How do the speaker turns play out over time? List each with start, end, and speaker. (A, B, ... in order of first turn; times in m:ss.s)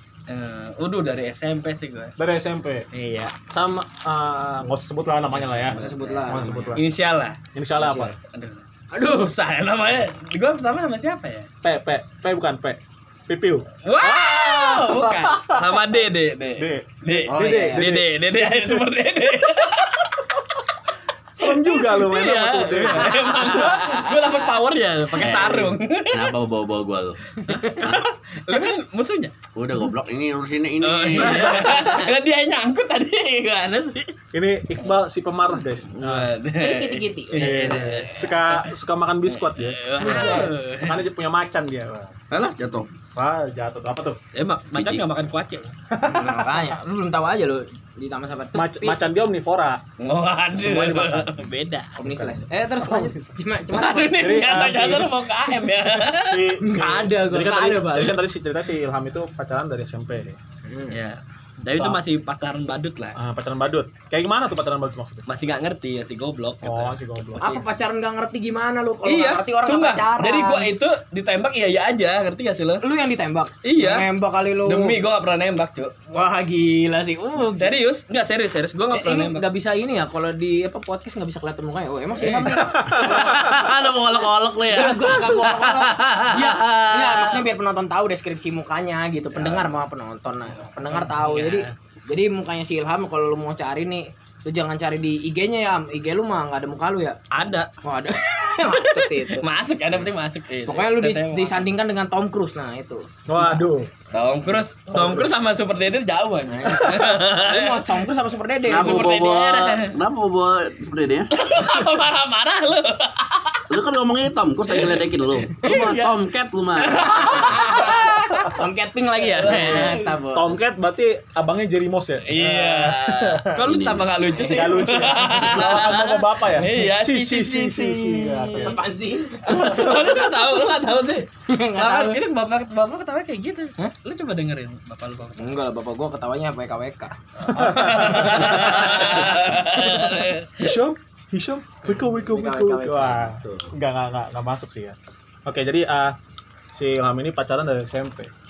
0:00.3-0:02.1 A
0:02.2-0:02.8 B
0:02.9-0:03.3 A
0:03.5-0:06.9 B
0:05.4-0:07.4 A
0:05.7-0:06.8 C
0:07.5-0:08.1 B
0:07.8-0:08.1 C
0:08.2-0:11.5 A
0:11.6-0:13.6 B
0:13.8-0:20.3 A
0:14.0-0:14.8 C
0:14.8-0:15.8 B
0:16.6-0:18.8 B
0:17.3-0:17.9 C
0:21.4-0:23.6 B
0:21.4-0:26.4 A
0:22.8-0:24.4 C
0:25.2-0:28.0 D
0:27.5-0:29.3 A
0:27.5-0:28.0 C
0:29.5-0:31.7 D
0:30.8-0:34.1 A
0:31.1-0:31.9 B
0:34.3-0:36.3 B
0:35.9-0:38.7 A
0:36.6-0:38.0 C
0:37.4-0:42.2 B
0:39.4-0:41.0 A
0:40.0-0:40.5 C
0:42.3-0:42.9 D
0:43.2-0:44.2 B
0:44.3-0:45.7 A
0:45.9-0:46.6 B
0:46.1-0:49.0 C
0:48.5-0:49.8 B
0:50.0-0:52.0 A
0:50.6-0:51.4 B
0:52.0-0:54.7 C
0:52.0-0:52.4 B
0:53.7-0:58.2 A
0:54.2-0:55.2 B
0:56.0-1:00.4 B
0:56.6-0:58.1 C
1:00.6-1:01.0 C
1:00.9-1:03.2 A
1:01.7-1:02.0 B
1:03.1-1:05.2 B
1:05.3-1:07.6 A
1:06.6-1:07.5 B
1:07.4-1:10.7 C
1:09.0-1:12.8 A
1:12.8-1:15.0 C
1:13.6-1:14.1 A
1:14.6-1:16.1 A
1:16.1-1:17.8 C
1:17.4-1:19.5 A
1:18.9-1:23.4 C
1:22.2-1:22.5 A
1:22.5-1:23.5 B
1:22.9-1:27.4 D
1:24.7-1:37.2 C
1:30.8-1:31.7 A
1:37.3-1:37.7 A
1:37.8-1:39.4 C
1:38.2-1:41.7 A
1:40.6-1:43.6 C
1:43.3-1:43.9 B
1:44.1-1:48.1 A
1:44.9-1:45.2 B
1:46.5-1:49.1 C
1:48.6-1:51.4 D
1:48.7-1:50.0 A
1:51.3-1:53.6 A
1:53.7-1:57.9 D
1:54.7-1:56.2 A
1:56.8-1:58.6 A
1:57.1-2:00.6 C
1:59.3-2:00.2 A
1:59.5-2:03.6 B
2:02.2-2:08.8 A
2:03.6-2:04.1 D
2:04.4-2:08.8 B
2:08.6-2:10.7 C
2:09.4-2:15.5 A
2:09.5-2:10.1 B
2:11.5-2:12.2 C
2:15.4-2:19.4 C
2:17.5-2:19.0 B
2:17.5-2:20.7 A
2:20.6-2:26.2 B
2:22.1-2:23.6 C
2:26.7-2:28.3 B